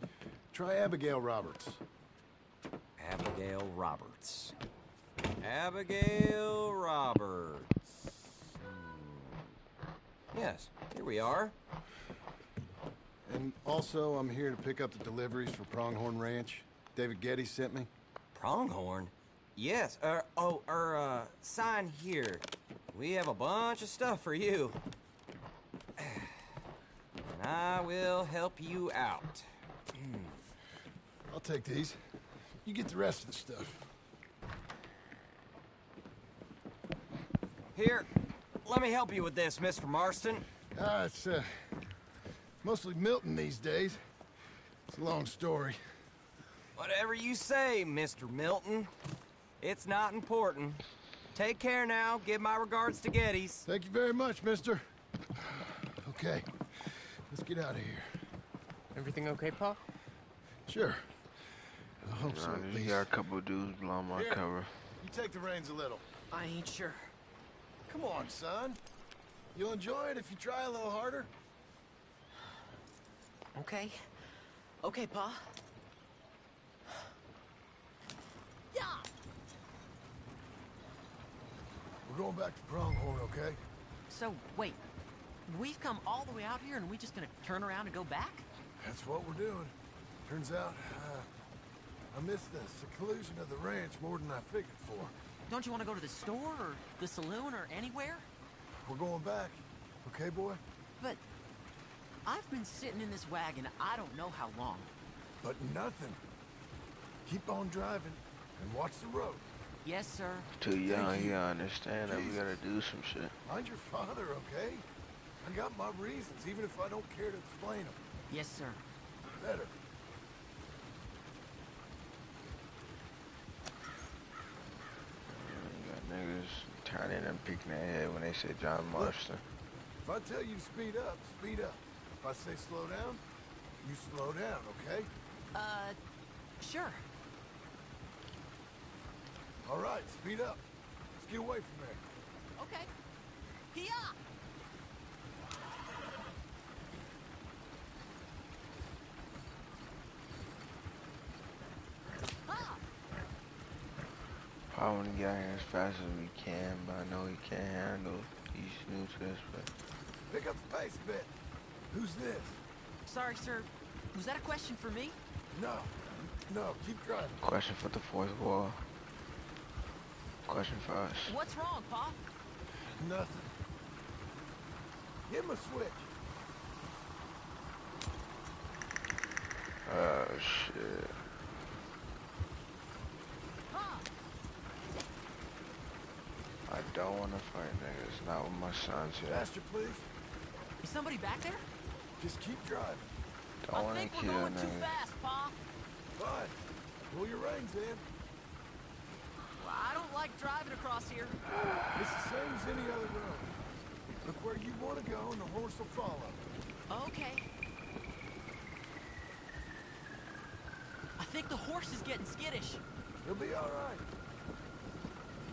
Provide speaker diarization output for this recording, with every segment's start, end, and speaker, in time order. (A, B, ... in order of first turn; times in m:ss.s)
0:00.5-0:01.8 A
0:03.0-0:04.6 B
0:05.4-0:07.7 B
0:08.6-0:09.4 B
0:10.3-0:11.6 B
0:13.3-0:17.9 A
0:18.4-0:24.8 B
0:26.0-0:26.3 B
0:27.2-0:30.4 B
0:31.3-0:32.0 A
0:32.6-0:33.9 A
0:37.8-0:38.1 B
0:38.6-0:40.4 B
0:40.7-0:41.7 A
0:42.6-0:44.0 A
0:44.9-0:45.8 A
0:46.8-0:48.9 B
0:49.6-0:50.8 B
0:51.3-0:53.7 B
0:53.7-0:54.9 A
0:55.4-0:58.2 A
0:59.0-0:59.7 C
1:00.7-1:01.0 A
1:02.0-1:03.1 A
1:02.2-1:04.8 D
1:04.1-1:04.5 A
1:05.0-1:06.0 A
1:06.3-1:07.1 C
1:07.9-1:08.8 A
1:09.5-1:11.3 A
1:13.6-1:14.3 C
1:14.8-1:15.4 C
1:18.7-1:19.1 C
1:22.0-1:23.6 A
1:24.1-1:24.8 C
1:25.5-1:28.5 C
1:28.8-1:29.8 A
1:30.3-1:31.3 A
1:32.1-1:35.2 A
1:35.5-1:38.3 C
1:38.8-1:40.6 A
1:42.2-1:44.9 C
1:45.4-1:46.2 A
1:47.3-1:49.5 A
1:49.8-1:50.5 C
1:50.6-1:53.4 D
1:50.9-1:51.4 A
1:52.0-1:52.5 A
1:53.5-1:54.8 A
1:55.4-1:58.0 A
1:58.3-1:58.8 C
1:59.4-1:59.7 A
2:05.3-2:09.4 D
2:10.0-2:13.2 A
2:13.8-2:15.1 A
2:15.5-2:16.0 C
2:16.6-2:17.0 C
2:19.6-2:20.6 A
2:21.2-2:22.0 A
2:22.6-2:22.9 C
2:23.7-2:24.2 C
2:32.5-2:32.8 C
2:34.7-2:39.7 D
2:40.3-2:41.3 A
2:41.9-2:42.6 A
2:43.1-2:45.2 C
2:45.5-2:47.4 A
2:47.4-2:48.9 D
2:50.5-2:51.4 D
2:51.2-2:52.2 C
2:52.9-2:53.5 A
2:55.3-2:56.1 A
2:59.9-3:01.2 D
3:03.7-3:04.1 C
3:06.7-3:09.5 D
3:09.3-3:10.1 A
3:10.8-3:11.7 C
3:12.2-3:13.1 A
3:13.6-3:15.0 D
3:13.7-3:15.6 C
3:16.2-3:16.6 A
3:17.1-3:18.1 A
3:19.6-3:21.4 C
3:22.0-3:23.6 A
3:24.2-3:26.4 A
3:26.9-3:27.5 C
3:31.2-3:32.8 C
3:33.2-3:34.1 A